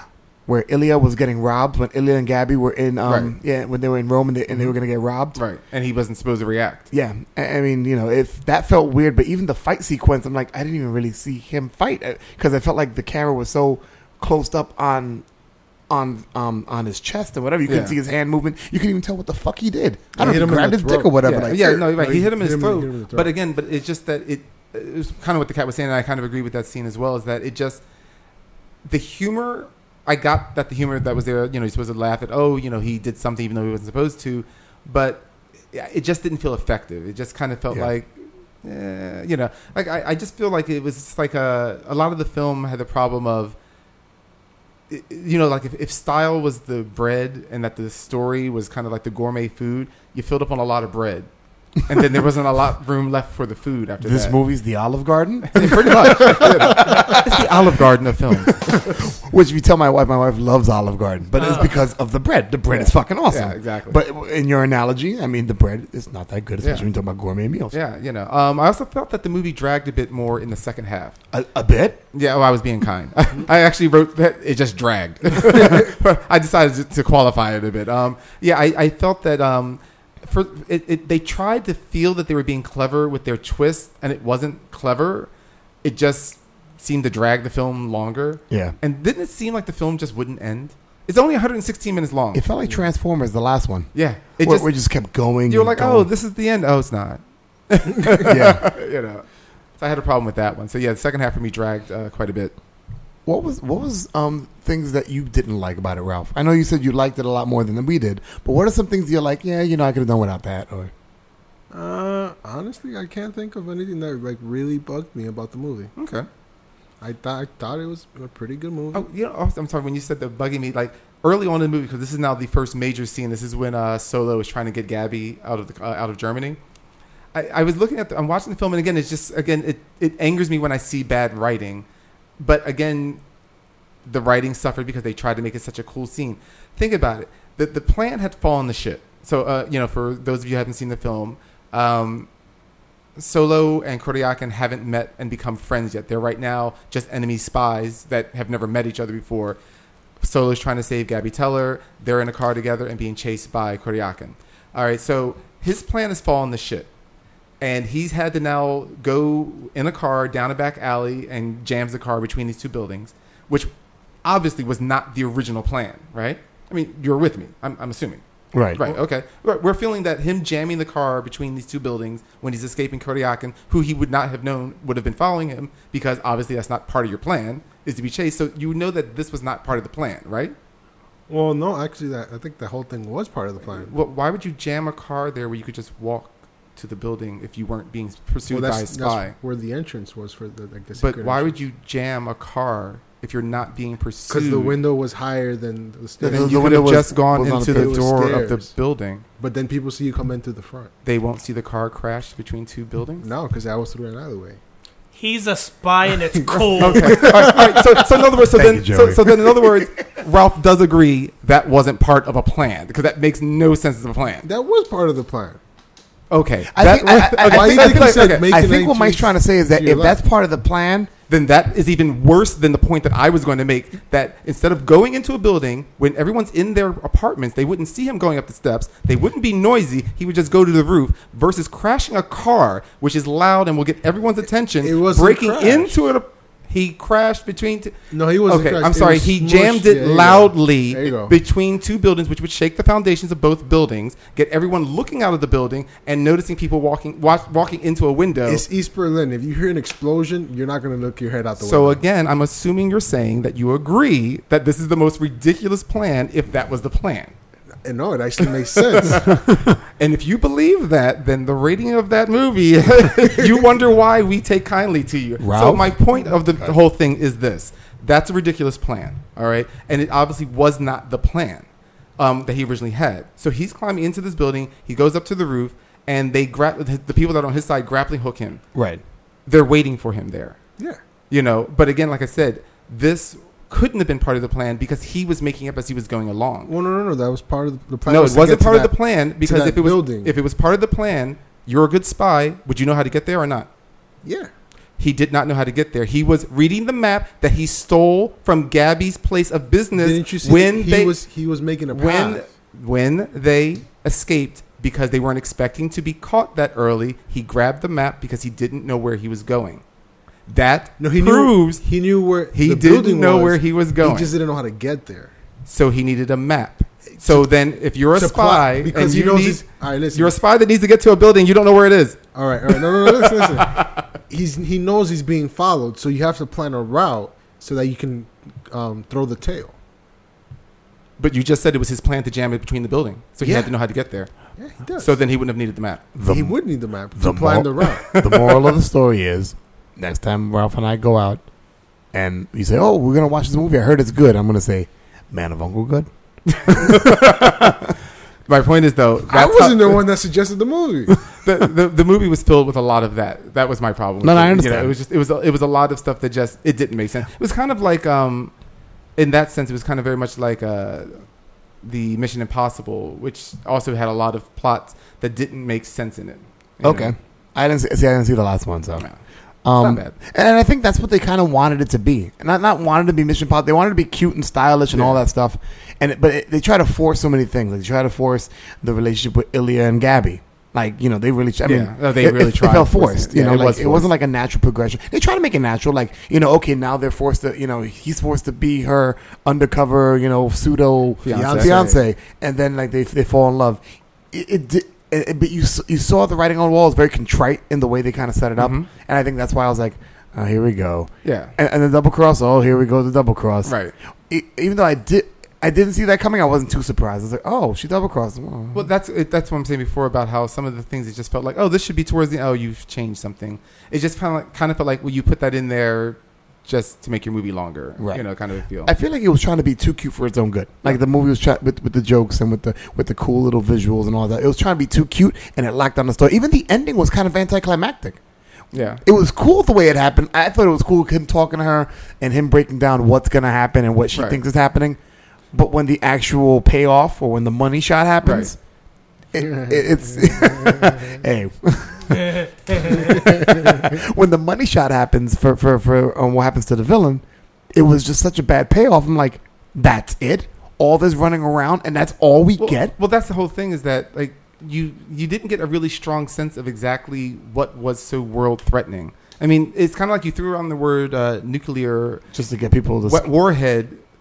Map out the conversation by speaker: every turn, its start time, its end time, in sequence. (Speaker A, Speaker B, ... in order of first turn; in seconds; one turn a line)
Speaker A: 0.5-5.4
Speaker B: 3.1-3.3
Speaker B: 5.3-6.9
Speaker A: 6.9-15.2
Speaker A: 15.9-21.9
Speaker B: 17.7-18.0
Speaker C: 20.2-23.3
Speaker B: 21.2-27.8
Speaker B: 28.9-43.6
Speaker B: 44.9-51.3
Speaker B: 51.9-54.4
Speaker A: 54.0-57.5
Speaker B: 55.5-58.7
Speaker A: 58.5-67.8
Speaker B: 62.7-64.0
Speaker B: 66.6-66.9
Speaker B: 67.7-71.2
Speaker A: 71.3-72.0
Speaker B: 72.1-85.3
Speaker B: 85.8-92.5
Speaker A: 88.5-88.8
Speaker A: 92.3-96.1
Speaker B: 93.9-94.7
Speaker B: 95.5-99.2
Speaker A: 98.2-98.7
Speaker B: 99.8-102.5
Speaker A: 103.3-110.9
Speaker C: 111.7-115.9
Speaker B: 116.0-116.3
Speaker C: 117.0-119.0
Speaker B: 118.9-126.6
Speaker B: 127.3-131.9
Speaker B: 132.4-133.2
Speaker B: 134.1-142.3
Speaker B: 143.2-149.6
Speaker B: 150.2-156.9
Speaker B: 157.6-163.7
Speaker B: 164.2-168.2
Speaker A: 168.5-168.8
Speaker B: 168.7-180.6
Speaker C: 181.3-183.9
Speaker B: 183.7-189.3
Speaker C: 188.5-191.6
Speaker B: 191.0-194.8
Speaker C: 194.3-196.9
Speaker A: 196.2-198.1
Speaker B: 196.2-199.2
Speaker C: 197.7-198.7
Speaker C: 199.4-200.9
Speaker B: 201.0-203.3
Speaker C: 203.2-204.6
Speaker D: 205.1-207.3
Speaker B: 206.8-214.5
Speaker A: 207.0-209.9
Speaker C: 214.4-215.6
Speaker B: 216.3-218.5
Speaker A: 216.7-221.1
Speaker C: 217.4-220.2
Speaker B: 221.3-248.7
Speaker C: 234.8-236.0
Speaker C: 238.1-241.4
Speaker C: 248.5-252.0
Speaker B: 251.6-257.3
Speaker C: 257.8-259.4
Speaker B: 259.0-259.4
Speaker A: 259.3-259.8
Speaker B: 260.0-271.7
Speaker A: 265.4-266.8
Speaker B: 272.2-278.6
Speaker A: 278.8-279.0
Speaker B: 279.5-280.6
Speaker B: 281.3-286.7
Speaker C: 286.7-290.4
Speaker B: 288.1-293.7
Speaker C: 294.2-294.5
Speaker B: 295.0-301.2
Speaker C: 300.0-302.4
Speaker B: 301.9-309.8
Speaker B: 310.5-311.8
Speaker C: 311.0-315.3
Speaker B: 312.5-314.3
Speaker B: 315.7-324.0
Speaker C: 318.1-320.4
Speaker C: 322.3-323.8
Speaker C: 324.3-329.8
Speaker B: 331.2-334.3
Speaker C: 334.6-335.1
Speaker B: 335.0-336.0
Speaker A: 336.1-336.6
Speaker C: 336.3-338.2
Speaker A: 337.1-341.4
Speaker B: 338.1-338.7
Speaker A: 342.1-347.9
Speaker B: 346.7-347.8
Speaker B: 348.5-350.1
Speaker C: 349.3-351.2
Speaker B: 351.3-358.5
Speaker A: 354.2-354.9
Speaker B: 359.2-361.2
Speaker B: 361.8-367.1
Speaker A: 366.8-369.1
Speaker A: 369.6-403.8
Speaker B: 369.8-370.2
Speaker B: 374.9-375.2
Speaker B: 381.6-384.1
Speaker B: 391.2-391.9
Speaker C: 391.3-392.0
Speaker B: 398.6-398.9
Speaker B: 401.2-401.6
Speaker B: 403.6-403.9
Speaker A: 404.3-408.9
Speaker B: 408.7-418.9
Speaker A: 418.0-418.2
Speaker A: 418.9-428.2
Speaker B: 428.7-429.0
Speaker A: 429.0-435.0
Speaker B: 434.1-434.4
Speaker A: 435.5-438.6
Speaker B: 438.2-438.5
Speaker A: 439.3-447.2
Speaker A: 447.7-452.9
Speaker B: 452.6-462.2
Speaker A: 462.3-463.3
Speaker B: 463.1-464.0